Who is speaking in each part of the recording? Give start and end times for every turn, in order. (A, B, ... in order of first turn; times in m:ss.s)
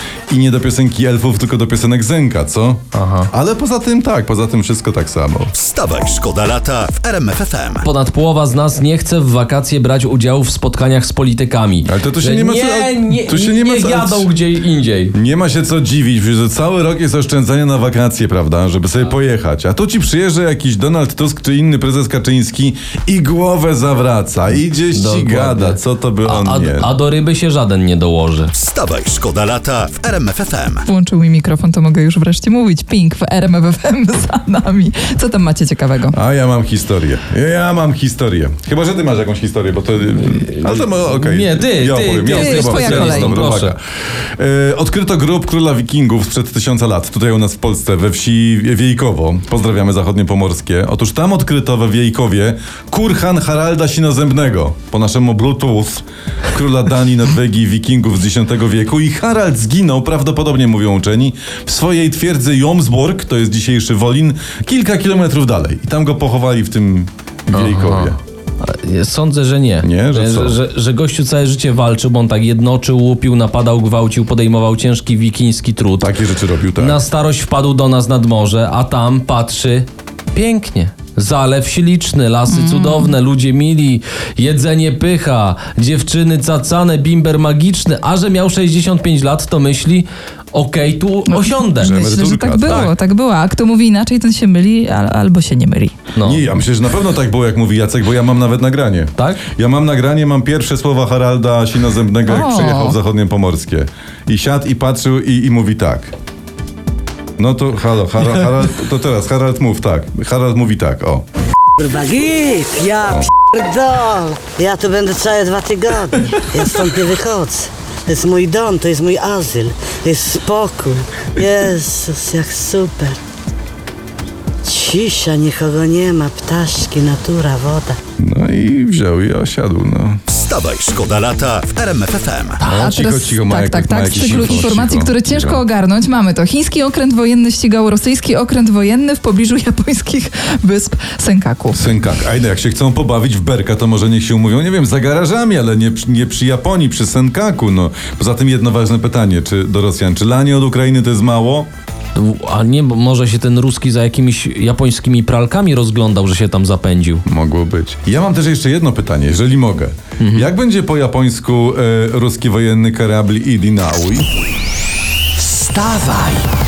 0:00.3-0:05.5 A
0:02.9-0:03.3 B
0:05.6-0:07.9 C
0:07.8-0:15.2 B
0:11.8-0:14.3 A
0:15.1-0:26.9 A
0:24.9-0:28.5 B
0:28.6-0:30.8 C
0:30.9-0:36.2 D
0:36.1-0:43.8 A
0:40.3-0:43.8 B
0:42.3-0:43.4 D
0:44.4-1:08.2 A
1:07.5-1:16.1 B
1:09.8-1:10.6 A
1:16.0-1:17.0 A
1:16.8-1:32.0 B
1:22.5-1:23.1 D
1:31.3-1:36.0 D
1:31.8-1:32.9 A
1:36.2-1:36.5 B
1:36.2-1:46.1 A
1:39.2-1:39.4 B
1:42.3-1:43.0 D
1:47.4-1:51.2 A
1:51.8-2:03.2 E
2:04.6-2:08.0 E
2:08.2-2:10.2 A
2:10.3-2:12.6 C
2:12.6-2:15.6 A
2:12.6-2:21.9 D
2:21.7-2:31.7 A
2:32.2-2:37.2 B
2:37.3-2:44.3 A
2:40.2-2:40.5 B
2:45.4-2:46.4 B